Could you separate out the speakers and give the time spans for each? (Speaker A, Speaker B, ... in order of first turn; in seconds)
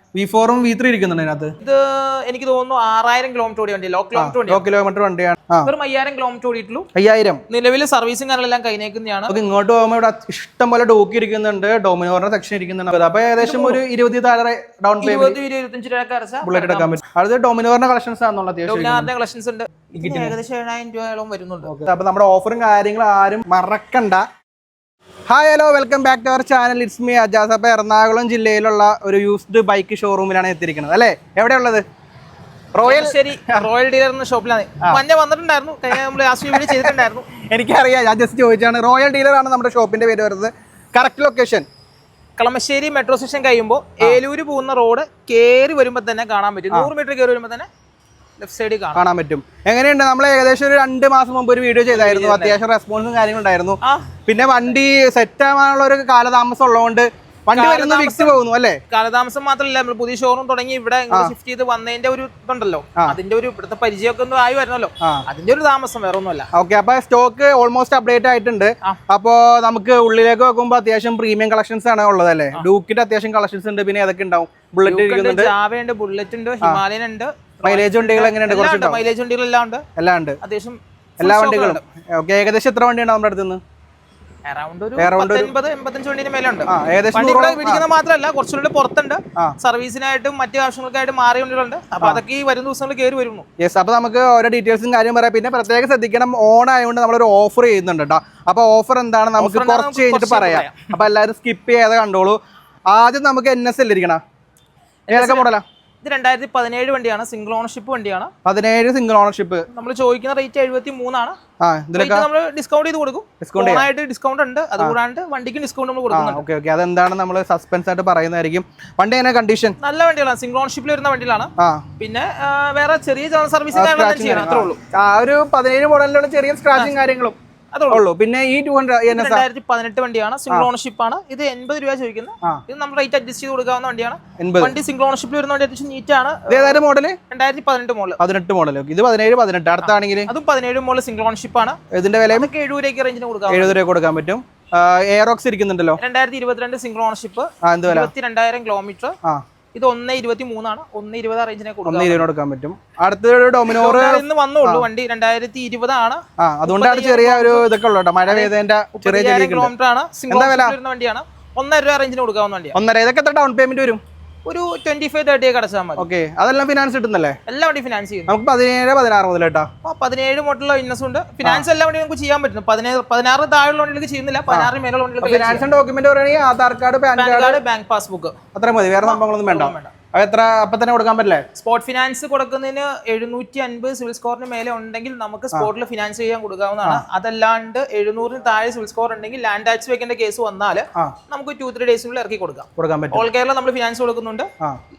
Speaker A: 0.1-1.5, 4.1-5.7, 6.9-7.4, 9.3-15.4, 16.4-19.1, 20.0-20.3, 21.6-24.2, 25.3-31.8, 32.7-33.6, 36.5-41.6, 48.9-58.8, 66.5-75.5, 77.6-79.0, 80.0-80.4, 81.2-83.6, 85.0-85.5, 86.7-87.8, 93.6-102.4, 102.9-104.2, 105.1-105.6, 108.4-109.7, 111.6-112.3, 113.4-113.9, 116.1-119.8, 121.6-121.8, 123.7-127.3, 127.9-129.4, 134.4-134.8, 136.5-137.2, 138.2-140.3, 141.9-142.5, 143.5-146.0, 147.6-148.1, 151.8-154.8, 156.4-159.7, 160.3-160.8, 162.7-164.0, 166.0-167.4, 168.3-169.7, 174.5-177.6, 178.5-181.4, 192.8-193.2
Speaker B: 1.6-4.6, 5.6-6.8, 7.5-9.3, 13.4-13.8, 15.0-17.0, 18.7-21.7, 32.8-37.2, 42.4-47.7, 48.4-49.0, 51.9-52.6, 53.8-54.2, 57.5-58.4, 58.9-66.5, 74.8-79.8, 80.4-81.8, 84.5-93.5, 99.4-100.9, 105.1-105.5, 106.0-108.3, 109.7-111.4, 111.9-116.4, 119.8-124.8, 126.7-127.0, 127.7-128.0, 129.1-138.2, 139.8-141.8, 142.3-143.8, 146.0-149.2, 149.7-152.2, 153.7-157.7, 158.3-162.8, 164.4-166.1, 167.5-168.3, 169.8-175.7, 177.2-178.3, 179.0-179.9, 181.5-194.5